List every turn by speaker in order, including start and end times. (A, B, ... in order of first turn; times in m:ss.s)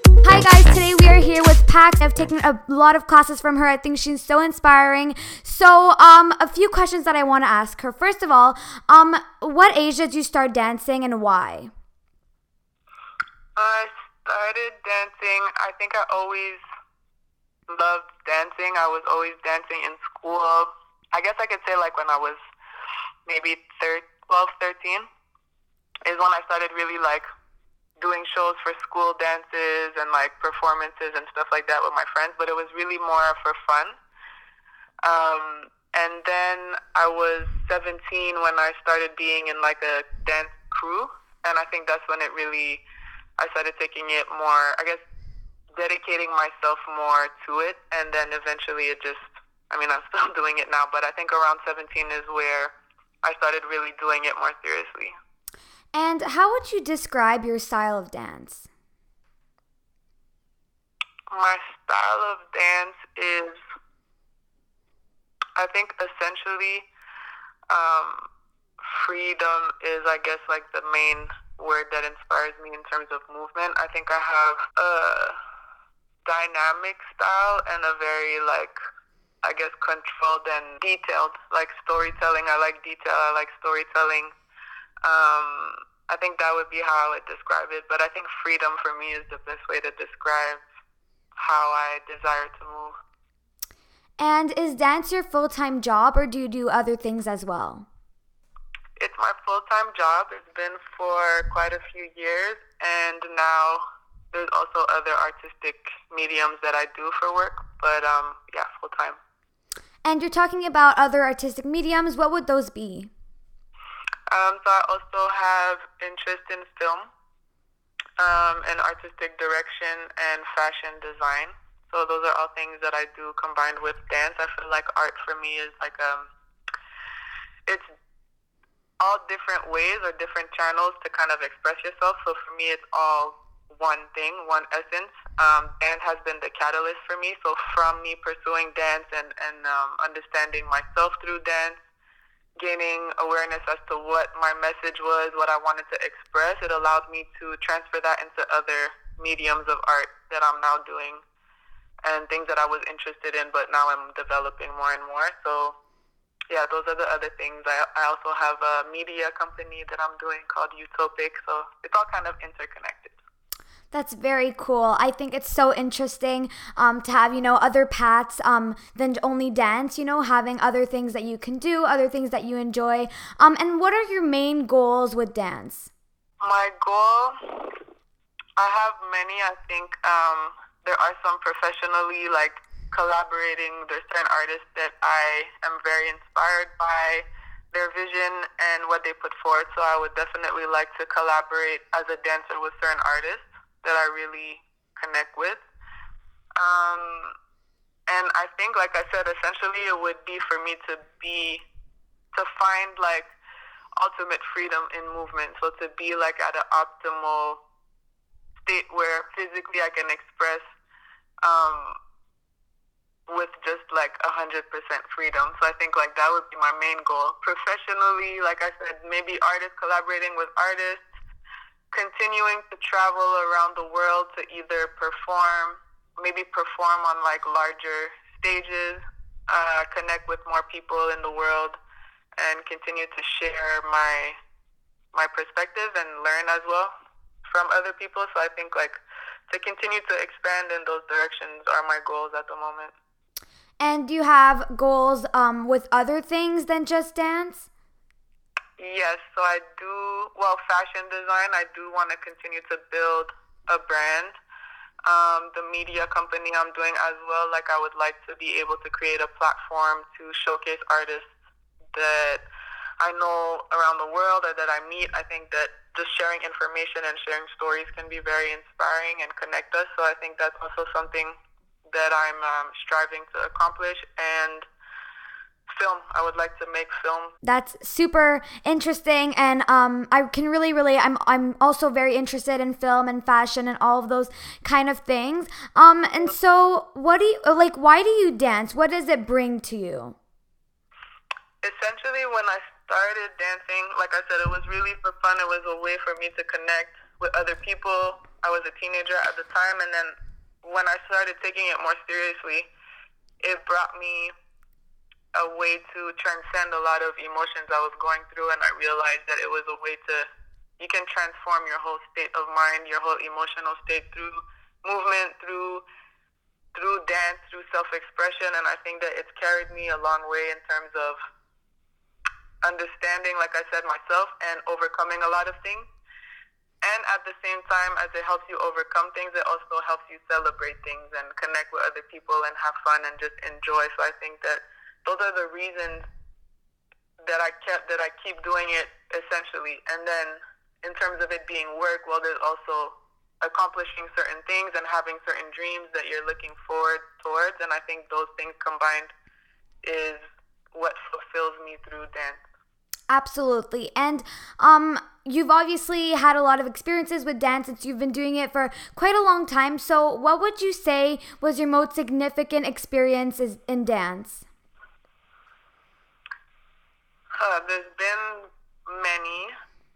0:00.2-0:11.7 A
0:13.6-0:16.6 B
0:17.7-0:22.4 B
0:23.3-0:25.1 B
0:26.0-0:27.3 B
0:28.0-0:34.0 B
0:35.0-0:42.8 B
0:43.4-0:45.0 B
0:45.7-0:55.1 B
0:55.9-0:58.6 A
1:01.3-1:03.6 B
1:05.6-1:06.9 B
1:07.7-1:08.2 B
1:08.8-1:15.4 B
1:16.2-1:18.8 B
1:19.4-1:24.3 B
1:25.0-1:30.6 B
1:31.4-1:33.0 B
1:34.2-1:37.9 A
1:39.0-1:43.8 B
1:44.3-1:49.2 B
1:50.0-1:53.1 A
1:54.3-1:57.1 B
1:58.2-2:06.3 B
2:09.0-2:21.8 B
2:22.6-2:31.2 B
2:32.0-2:35.8 B
2:36.5-2:43.2 B
2:43.9-2:55.9 A
2:56.4-2:57.8 B
2:58.6-3:15.6 B
3:16.6-3:17.3 B
3:18.1-3:21.6 B
3:22.3-3:23.3 B
3:24.0-3:27.6 B
3:28.6-3:30.6 B
3:31.4-3:32.0 B
3:33.3-3:41.0 B
3:41.9-3:51.8 B
3:52.4-3:54.4 B
3:55.1-3:56.9 B
3:57.5-4:02.9 B
4:03.8-4:07.7 A
4:08.8-4:14.4 B
4:15.1-4:21.3 B
4:21.9-4:22.4 B
4:23.0-4:31.4 B
4:31.9-4:34.7 B
4:35.7-4:37.3 B
4:37.4-4:50.2 A
4:51.6-5:02.7 B
5:03.4-5:04.3 B
5:05.4-5:10.3 B
5:10.8-5:15.8 B
5:16.7-5:21.2 B
5:22.6-5:25.9 B
5:26.8-5:36.1 B
5:37.2-5:49.1 B
5:49.8-5:50.2 B
5:50.7-5:52.4 B
5:53.1-6:04.4 A
6:07.4-6:09.5 B